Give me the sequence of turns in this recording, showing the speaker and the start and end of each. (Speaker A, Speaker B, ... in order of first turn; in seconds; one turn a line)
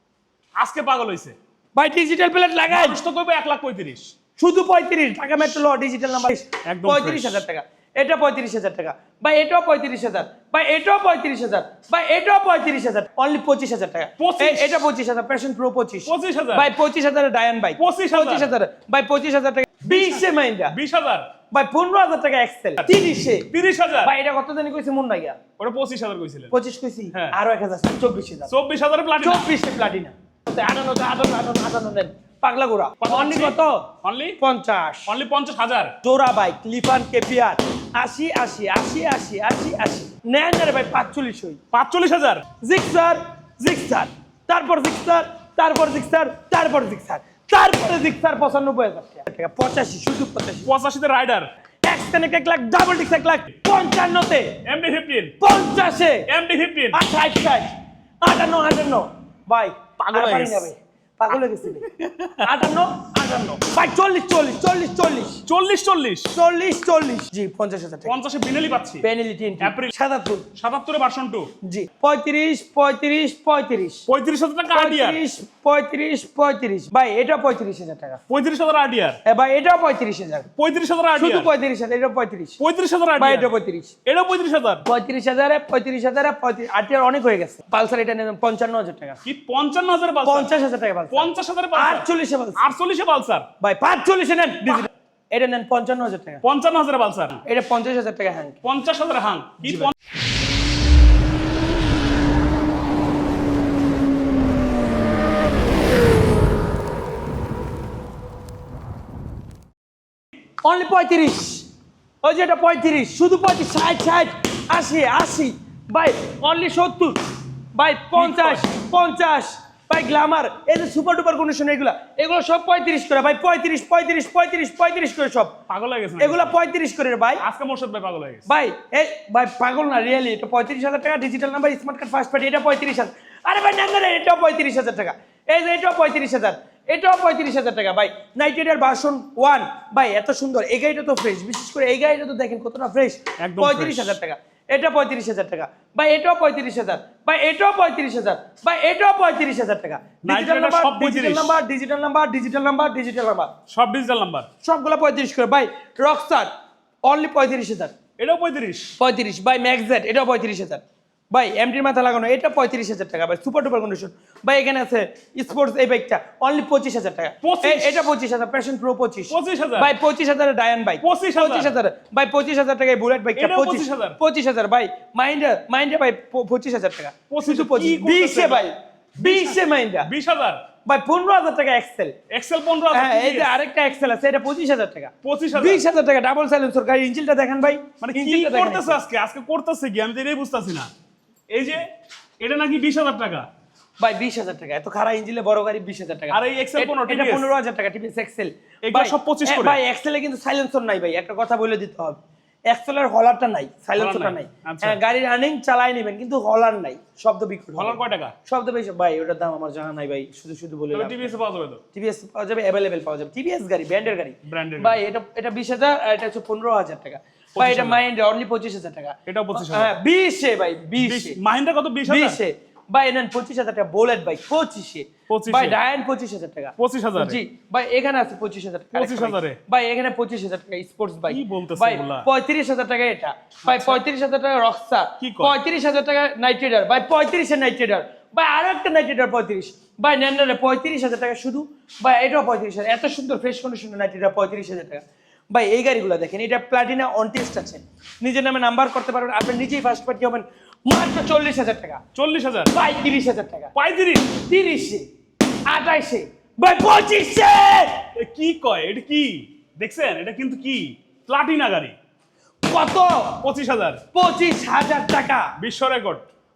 Speaker A: 0.6-1.4
Speaker B: 1.7-3.0
Speaker A: 2.7-4.1
Speaker B: 4.4-20.7
Speaker A: 6.6-7.4
Speaker A: 14.2-14.8
Speaker A: 16.1-16.7
Speaker A: 17.8-18.5
Speaker A: 19.8-21.2
Speaker B: 21.5-23.5
Speaker A: 23.5-24.1
Speaker B: 24.0-25.4
Speaker A: 25.6-26.5
Speaker B: 26.5-28.5
Speaker A: 28.5-29.5
Speaker B: 29.2-33.9
Speaker A: 33.0-34.4
Speaker B: 34.4-35.1
Speaker A: 35.1-36.0
Speaker B: 36.0-41.6
Speaker A: 41.7-42.4
Speaker B: 42.6-50.7
Speaker A: 50.6-51.5
Speaker B: 51.9-54.6
Speaker A: 54.6-55.4
Speaker B: 55.4-56.3
Speaker A: 56.3-57.0
Speaker B: 56.9-61.9
Speaker A: 60.0-60.7
Speaker A: 61.8-62.5
Speaker B: 62.4-65.4
Speaker A: 65.5-66.3
Speaker B: 66.3-68.1
Speaker A: 68.0-69.0
Speaker B: 69.0-70.5
Speaker A: 69.6-69.9
Speaker A: 70.5-71.5
Speaker B: 71.6-74.0
Speaker A: 74.1-75.2
Speaker B: 74.7-78.2
Speaker A: 78.3-79.2
Speaker B: 79.2-80.5
Speaker A: 80.6-81.5
Speaker B: 81.2-82.6
Speaker A: 82.6-83.5
Speaker B: 83.2-83.9
Speaker A: 84.0-84.8
Speaker B: 84.8-89.2
Speaker A: 89.2-90.5
Speaker B: 90.2-92.7
Speaker A: 91.1-93.5
Speaker B: 93.6-96.4
Speaker A: 96.4-97.4
Speaker B: 97.4-98.6
Speaker A: 98.6-99.9
Speaker B: 110.6-111.7
Speaker B: 112.2-117.2
Speaker B: 117.7-125.5
Speaker A: 118.2-118.6
Speaker A: 125.7-126.5
Speaker B: 126.2-127.4
Speaker A: 127.4-128.4
Speaker B: 128.4-153.5
Speaker A: 143.4-144.2
Speaker A: 150.2-151.6
Speaker A: 153.7-154.5
Speaker B: 154.6-156.5
Speaker B: 157.0-157.9
Speaker A: 158.2-158.9
Speaker B: 159.0-180.1
Speaker A: 167.4-168.0
Speaker A: 169.3-169.9
Speaker A: 171.0-171.8
Speaker A: 173.3-174.2
Speaker A: 177.3-180.6
Speaker B: 180.8-182.2
Speaker A: 182.3-183.5
Speaker B: 182.9-189.0
Speaker A: 185.2-185.8
Speaker A: 188.0-190.9
Speaker A: 191.5-191.9
Speaker A: 192.4-193.5
Speaker B: 194.0-211.3
Speaker A: 196.3-197.5
Speaker A: 198.8-199.8
Speaker A: 204.0-205.0
Speaker A: 207.8-208.3
Speaker A: 210.9-211.8
Speaker B: 211.9-221.4
Speaker A: 214.4-215.0
Speaker A: 217.5-218.0
Speaker A: 219.3-219.9
Speaker A: 221.0-222.4
Speaker B: 222.1-252.0
Speaker A: 225.3-225.8
Speaker A: 226.8-227.4
Speaker A: 228.9-229.6
Speaker A: 231.3-232.3
Speaker A: 233.6-234.0
Speaker A: 235.2-235.6
Speaker A: 252.1-252.7
Speaker B: 252.7-253.7
Speaker A: 253.7-254.4
Speaker B: 254.5-255.0
Speaker B: 255.7-258.1
Speaker A: 258.1-261.9
Speaker B: 262.6-263.4
Speaker A: 263.4-264.0
Speaker B: 264.1-265.5
Speaker A: 265.6-266.2